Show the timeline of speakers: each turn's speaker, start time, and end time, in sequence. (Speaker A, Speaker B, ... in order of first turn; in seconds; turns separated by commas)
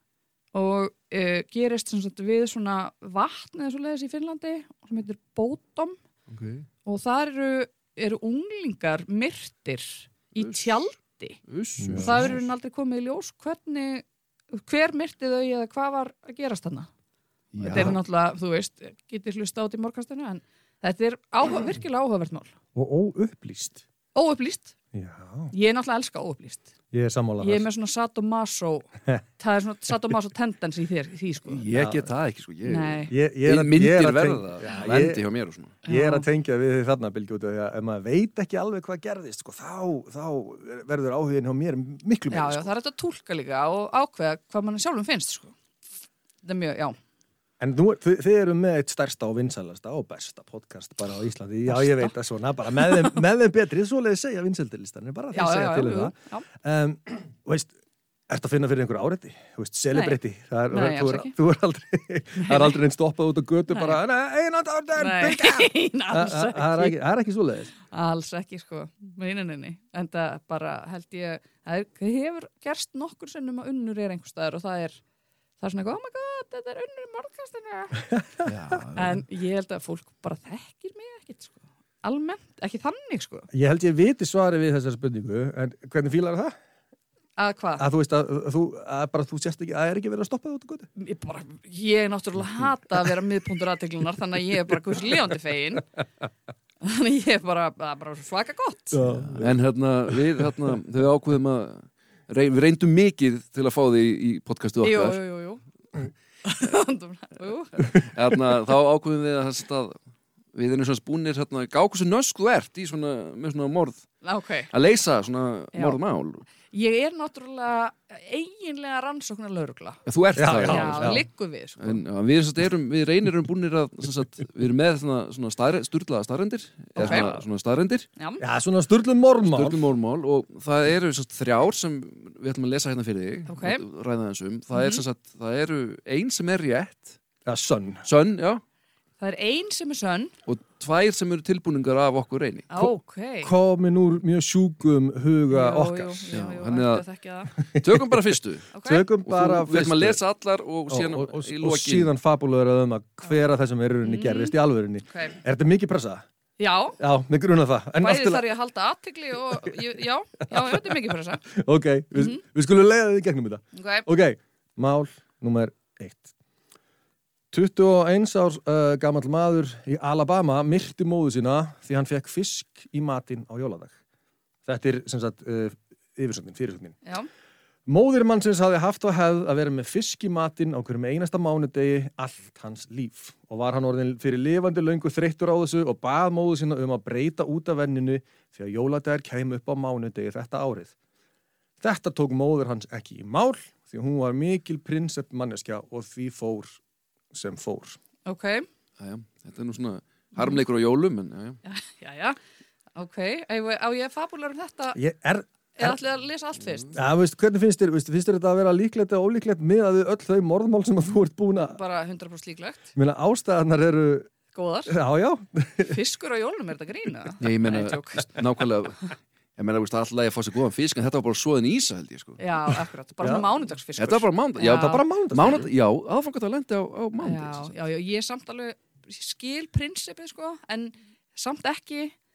Speaker A: 0.5-6.0, Speaker B: 6.3-6.7, Speaker A: 6.8-11.4, Speaker B: 10.3-10.6, Speaker B: 11.5-12.4, Speaker C: 11.8-12.4, Speaker A: 12.0-16.9, Speaker B: 17.5-18.0, Speaker C: 17.6-18.0, Speaker A: 17.6-22.5, Speaker C: 22.7-23.8, Speaker A: 24.1-24.7, Speaker C: 24.9-25.5, Speaker A: 25.5-26.7, Speaker C: 26.9-27.7, Speaker A: 27.4-31.6, Speaker B: 31.4-35.8, Speaker C: 31.7-32.1, Speaker A: 32.6-33.1, Speaker C: 33.1-35.2, Speaker C: 35.8-42.7, Speaker A: 35.9-36.3, Speaker A: 42.3-45.5, Speaker A: 46.4-47.0, Speaker C: 47.6-57.7, Speaker A: 51.6-52.1, Speaker A: 52.8-53.0, Speaker A: 55.3-56.5, Speaker C: 58.3-67.7, Speaker A: 59.9-60.2, Speaker A: 60.7-61.3, Speaker A: 62.4-62.8, Speaker A: 63.7-64.0, Speaker A: 65.0-67.0, Speaker A: 67.9-75.0, Speaker A: 75.6-78.0, Speaker B: 78.4-79.2, Speaker A: 78.9-83.5, Speaker C: 83.5-86.5, Speaker A: 87.4-87.8, Speaker C: 87.8-90.9, Speaker A: 91.0-95.9, Speaker A: 96.8-99.0, Speaker C: 98.9-99.6, Speaker B: 99.3-105.2, Speaker A: 104.8-105.6, Speaker A: 106.4-108.0, Speaker B: 107.9-110.0, Speaker B: 110.5-114.1, Speaker A: 114.2-114.7, Speaker B: 114.7-116.5, Speaker A: 115.7-116.0, Speaker A: 116.7-120.0, Speaker B: 120.0-121.2, Speaker C: 120.3-121.3, Speaker A: 120.6-122.0, Speaker B: 121.8-128.1, Speaker C: 127.0-127.4, Speaker A: 127.0-127.3, Speaker A: 128.2-128.4, Speaker C: 128.4-129.8, Speaker B: 129.4-137.2, Speaker A: 133.5-133.8, Speaker A: 134.7-135.0, Speaker C: 137.4-138.0, Speaker B: 138.0-138.6, Speaker A: 139.2-140.3, Speaker B: 140.4-142.7, Speaker A: 142.7-143.5, Speaker C: 142.8-146.3, Speaker A: 145.5-147.5, Speaker B: 146.3-147.0, Speaker C: 147.6-148.2, Speaker B: 147.8-148.7, Speaker A: 148.7-149.1, Speaker C: 148.8-150.2, Speaker B: 149.2-152.1, Speaker C: 150.9-156.2, Speaker A: 154.0-154.5, Speaker A: 155.1-155.3, Speaker A: 156.6-157.0, Speaker C: 157.0-158.4, Speaker A: 158.0-161.4, Speaker C: 159.5-159.8, Speaker C: 160.4-160.9, Speaker C: 161.5-166.3, Speaker A: 162.2-162.4, Speaker A: 163.7-164.1, Speaker C: 167.5-173.9, Speaker C: 174.7-177.0, Speaker A: 177.0-177.3, Speaker C: 177.9-190.9, Speaker C: 191.8-196.8, Speaker C: 197.3-198.0, Speaker A: 198.2-198.7, Speaker B: 199.0-201.6, Speaker A: 201.6-202.4, Speaker A: 202.9-205.0, Speaker C: 204.9-206.0, Speaker A: 205.8-206.9, Speaker C: 206.9-211.8, Speaker A: 211.6-212.9, Speaker C: 212.9-214.3, Speaker A: 214.5-214.9, Speaker C: 214.9-215.9, Speaker A: 215.8-218.4, Speaker B: 217.4-222.4, Speaker A: 222.4-225.0, Speaker C: 223.2-223.6, Speaker B: 224.0-227.8, Speaker C: 224.6-225.7, Speaker A: 227.2-232.1